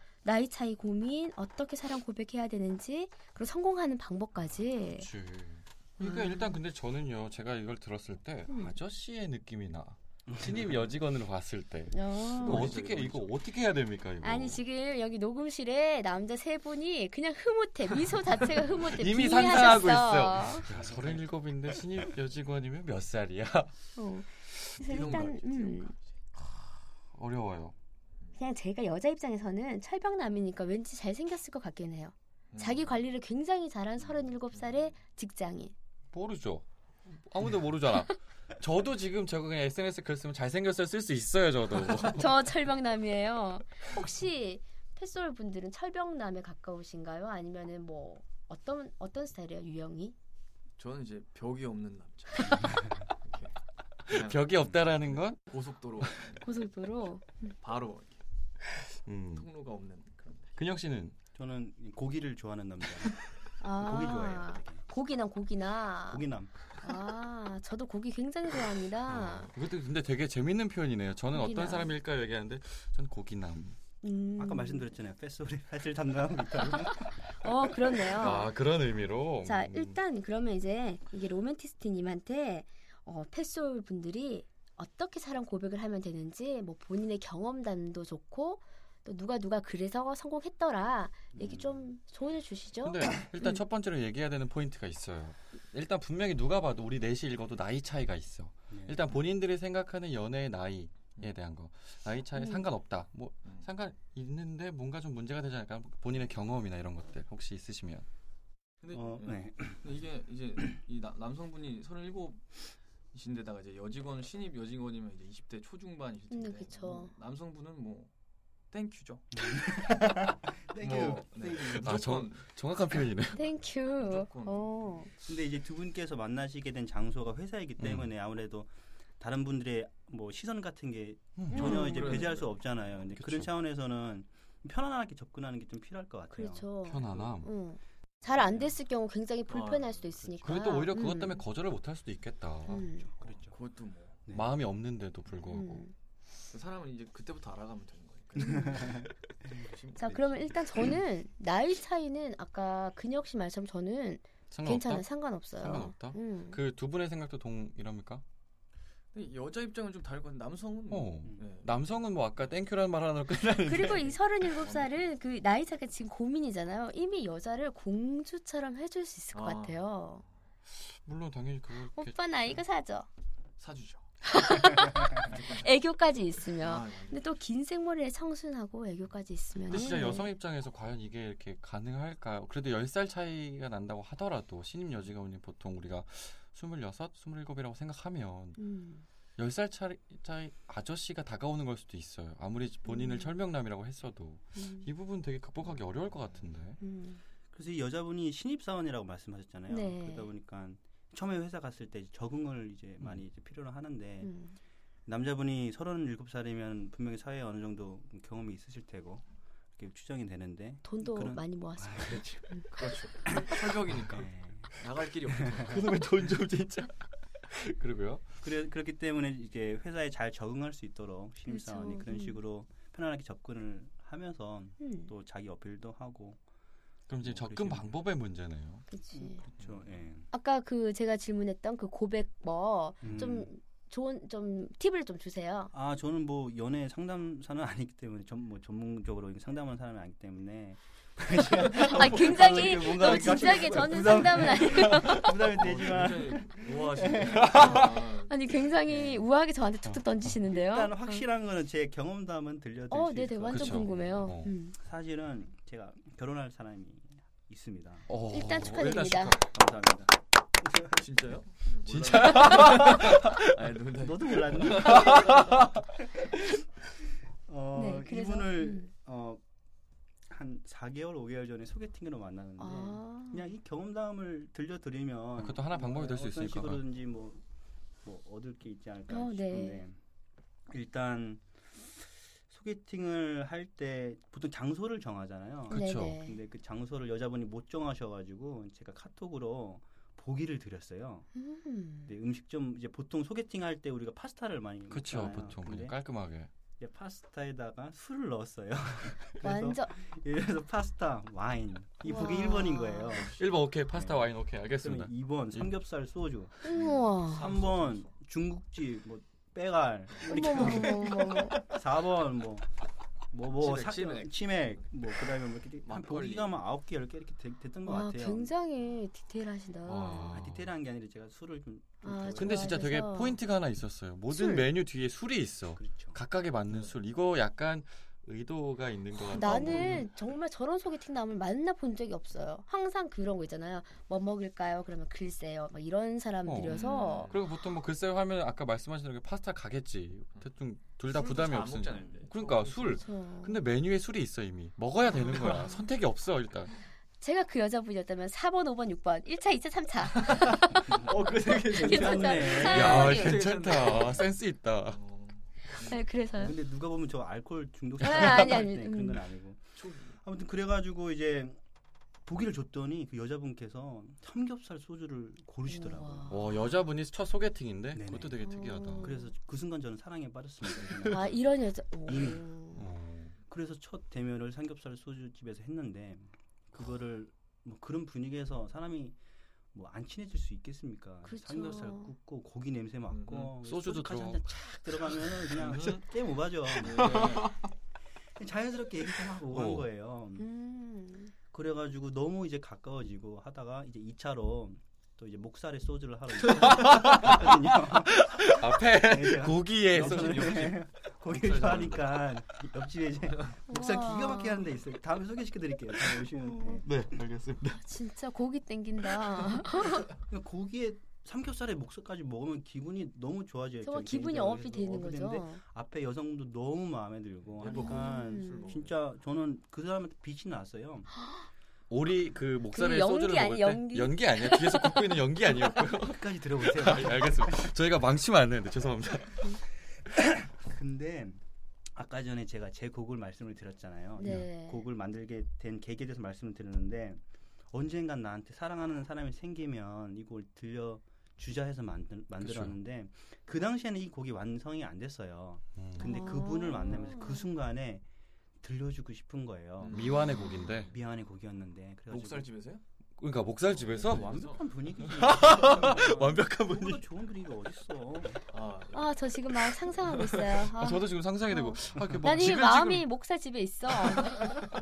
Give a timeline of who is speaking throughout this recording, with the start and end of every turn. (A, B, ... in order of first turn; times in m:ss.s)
0:00.2-0:05.1 A
0:04.9-0:14.6 B
0:06.0-0:06.6 A
0:08.5-0:08.8 A
0:10.3-0:10.6 C
0:11.9-0:12.7 A
0:12.4-0:13.3 D
0:14.2-0:20.7 A
0:18.8-0:23.7 B
0:20.7-0:21.2 D
0:24.0-0:25.9 A
0:24.8-0:26.1 D
0:26.4-0:27.8 B
0:28.4-0:35.7 A
0:32.5-0:33.0 D
0:34.0-0:34.9 D
0:36.1-0:42.3 B
0:42.0-0:50.1 A
0:50.8-0:53.5 D
0:54.0-0:56.5 D
0:54.1-0:55.4 B
0:56.4-0:57.5 A
0:57.6-0:58.2 D
0:58.7-0:59.5 B
0:59.4-1:00.5 D
1:00.5-1:01.2 B
1:01.4-1:03.2 C
1:03.6-1:06.2 A
1:03.7-1:04.8 C
1:06.1-1:06.5 C
1:06.8-1:09.5 A
1:09.1-1:13.8 B
1:11.3-1:11.9 A
1:14.0-1:14.9 A
1:14.4-1:17.3 C
1:17.4-1:18.5 A
1:18.2-1:20.0 B
1:19.4-1:33.6 A
1:31.3-1:31.9 C
1:32.8-1:48.0 B
1:38.7-1:39.1 C
1:42.4-1:42.6 A
1:48.8-1:58.1 D
1:48.9-1:49.8 C
1:56.3-1:57.1 A
1:58.7-1:59.9 D
1:59.3-2:02.0 C
2:00.8-2:02.5 D
2:01.7-2:03.4 B
2:03.4-2:05.1 A
2:04.0-2:04.7 D
2:05.2-2:16.7 C
2:07.8-2:08.1 B
2:11.4-2:12.0 B
2:11.5-2:12.3 A
2:11.5-2:13.1 D
2:13.2-2:13.5 B
2:16.3-2:21.4 A
2:16.8-2:17.5 B
2:19.5-2:20.3 D
2:20.4-2:22.9 B
2:22.7-2:23.1 A
2:23.0-2:23.6 C
2:23.4-2:24.2 D
2:24.3-2:24.5 C
2:24.3-2:25.8 B
2:25.5-2:25.9 A
2:26.5-2:30.6 D
2:28.4-2:29.7 C
2:28.4-2:28.7 A
2:30.0-2:36.6 A
2:34.5-2:38.2 B
2:39.1-2:41.7 D
2:40.9-2:44.2 B
2:43.6-2:50.2 A
2:44.6-2:45.0 D
2:49.3-2:50.3 D
2:50.7-2:52.2 B
2:51.9-2:53.1 A
2:53.6-2:54.0 D
2:54.2-3:00.3 A
2:55.1-2:55.7 D
2:56.6-2:57.4 D
2:59.7-3:08.6 B
3:08.6-3:09.0 A
3:09.4-3:16.8 B
3:12.9-3:13.3 A
3:14.6-3:14.9 A
3:16.8-3:17.2 A
3:17.5-3:24.3 C
3:19.7-3:20.3 A
3:24.2-3:24.6 A
3:25.0-3:29.2 C
3:29.8-3:32.6 C
3:30.8-3:32.8 A
3:32.7-3:35.9 D
3:33.2-3:34.8 C
3:35.3-3:35.8 C
3:35.6-3:38.3 B
3:38.4-3:46.4 C
3:41.5-3:42.4 A
3:44.8-3:45.1 A
3:47.1-3:48.8 B
3:47.2-3:47.9 C
3:48.9-3:49.4 A
3:49.1-3:50.3 C
3:49.6-3:49.8 D
3:50.3-3:55.7 A
3:53.0-3:53.5 C
3:55.7-4:07.9 C
4:01.7-4:05.5 A
4:01.8-4:03.5 D
4:04.8-4:05.2 B
4:05.5-4:08.4 D
4:07.2-4:08.0 B
4:07.5-4:11.2 A
4:10.5-4:18.1 C
4:12.9-4:14.8 A
4:13.5-4:14.5 B
4:18.1-4:19.5 B
4:18.3-4:19.4 A
4:19.4-4:21.0 C
4:20.9-4:25.6 D
4:21.9-4:23.6 B
4:24.0-4:26.5 C
4:24.9-4:25.6 B
4:27.4-4:29.4 C
4:27.7-4:28.9 A
4:30.3-4:37.4 C
4:32.6-4:33.5 A
4:35.4-4:36.8 B
4:38.0-4:40.0 C
4:39.1-4:39.8 A
4:40.7-4:41.9 C
4:42.5-4:51.3 C
4:45.7-4:46.2 B
4:45.7-4:46.4 A
4:51.4-4:52.1 A
4:52.1-4:55.9 C
4:54.9-4:56.5 B
4:56.8-5:06.8 C
4:59.4-5:00.0 A
5:02.0-5:03.2 A
5:03.1-5:03.4 D
5:03.3-5:05.8 B
5:06.6-5:07.5 A
5:06.7-5:08.1 D
5:07.3-5:12.7 C
5:10.1-5:11.7 D
5:10.3-5:11.6 A
5:13.3-5:18.5 C
5:13.5-5:14.8 D
5:15.8-5:16.6 D
5:17.8-5:20.4 A
5:19.8-5:20.7 B
5:20.3-5:22.8 C
5:22.0-5:23.4 A
5:22.3-5:30.1 B
5:24.3-5:24.7 A
5:25.8-5:26.2 C
5:29.3-5:37.3 A
5:29.3-5:30.0 C
5:36.4-5:46.7 B
5:36.7-5:37.4 D
5:41.0-5:43.0 D
5:42.9-5:43.6 A
5:45.3-5:45.8 A
5:47.2-5:51.1 A
5:50.1-5:54.3 D
5:50.9-5:53.2 C
5:51.6-5:53.4 A
5:52.6-5:55.0 B
5:54.8-5:56.0 D
5:55.8-5:56.6 A
5:56.4-6:01.6 C
5:58.0-5:59.2 A
5:59.8-6:00.2 D
6:02.2-6:06.5 C
6:05.7-6:06.5 A
6:06.3-6:09.1 B
6:07.9-6:08.4 C
6:08.4-6:09.3 A
6:09.0-6:11.4 C
6:11.1-6:12.8 A
6:12.1-6:12.5 C
6:12.8-6:13.3 B
6:13.5-6:19.2 C
6:19.7-6:27.4 C
6:21.2-6:22.1 A
6:23.1-6:23.5 D
6:23.6-6:26.0 B
6:26.8-6:27.7 B
6:26.8-6:27.5 D
6:28.4-6:30.5 C
6:29.5-6:29.9 B
6:30.4-6:31.3 A
6:31.5-6:46.9 C
6:36.5-6:40.8 B
6:39.9-6:42.2 D
6:43.7-6:44.6 A
6:46.5-6:46.8 A
6:46.8-6:47.8 B
6:47.8-6:50.1 A
6:50.1-7:01.1 C
6:53.8-6:55.6 A
6:57.5-6:59.0 D
6:57.7-6:58.7 A
7:01.9-7:09.6 B
7:02.7-7:05.1 A
7:05.9-7:07.7 C
7:10.0-7:11.4 C
7:12.0-7:28.0 C
7:14.2-7:14.8 A
7:22.4-7:22.8 B
7:25.8-7:26.3 B
7:26.0-7:27.5 A
7:28.6-7:30.2 C
7:29.8-7:31.0 D
7:29.9-7:30.9 B
7:30.9-7:32.5 C
7:32.1-7:32.8 D
7:33.2-7:34.3 B
7:33.7-7:35.6 D
7:34.0-7:38.4 C
7:35.1-7:37.0 B
7:38.5-7:39.2 D
7:38.9-7:44.5 A
7:40.5-7:43.1 B
7:43.9-7:44.5 B